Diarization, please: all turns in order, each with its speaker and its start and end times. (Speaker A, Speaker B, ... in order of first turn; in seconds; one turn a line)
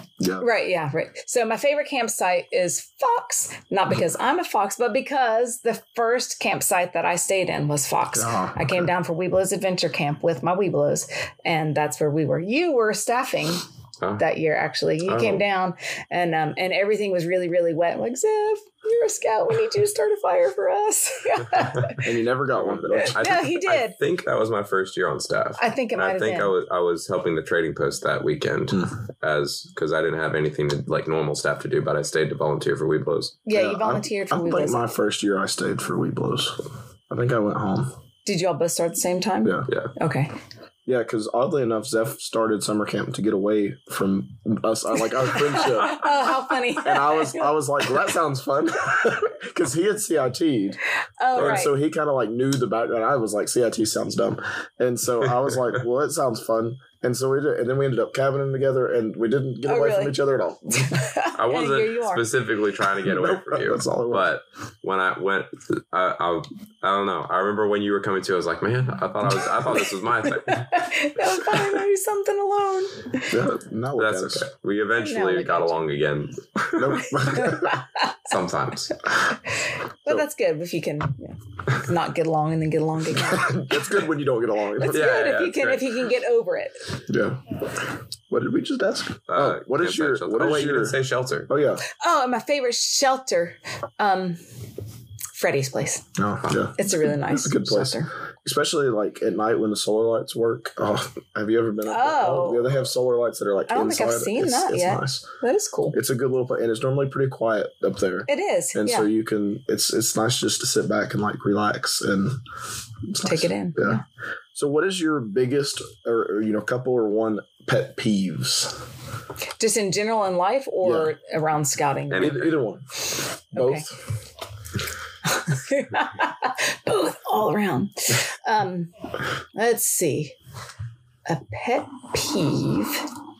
Speaker A: 0.2-0.4
Speaker B: 0.4-13.6
Speaker A: 8.1-8.9
Speaker B: 14.2-22.0
Speaker C: 15.1-15.4
Speaker A: 22.0-23.2
Speaker C: 22.5-33.4
Speaker B: 22.9-23.9
Speaker B: 25.6-26.5
Speaker B: 33.5-34.9
Speaker A: 33.5-37.9
Speaker B: 38.2-40.4
Speaker A: 39.4-39.7
Speaker A: 40.9-46.0
Speaker B: 45.3-47.5
Speaker A: 46.8-50.8
Speaker B: 51.2-51.7
Speaker A: 51.3-61.0
Speaker C: 51.3-51.6
Speaker B: 59.6-60.1
Speaker B: 60.7-62.3
Speaker C: 61.4-70.8
Speaker A: 63.0-64.3
Speaker B: 70.2-73.4
Speaker A: 73.3-74.5
Speaker C: 74.0-77.0
Speaker B: 75.0-75.8
Speaker A: 76.7-77.8
Speaker B: 77.1-78.2
Speaker C: 78.2-79.0
Speaker B: 79.5-83.8
Speaker A: 83.2-85.1
Speaker B: 84.8-86.9
Speaker C: 84.9-85.9
Speaker A: 87.1-87.4
Speaker A: 88.3-91.8
Speaker C: 89.3-91.5
Speaker B: 91.9-94.4
Speaker B: 95.3-96.1
Speaker A: 96.2-105.3
Speaker B: 96.8-98.1
Speaker B: 101.9-102.8
Speaker B: 103.7-106.0
Speaker A: 105.9-112.4
Speaker B: 108.3-109.1
Speaker A: 113.1-114.0
Speaker B: 113.2-114.0
Speaker A: 114.5-118.8
Speaker B: 119.6-122.4
Speaker A: 120.8-121.1
Speaker C: 122.1-122.6
Speaker A: 122.2-123.0
Speaker A: 123.5-124.0
Speaker B: 123.5-123.8
Speaker B: 125.2-128.9
Speaker B: 129.5-130.3
Speaker B: 131.3-133.1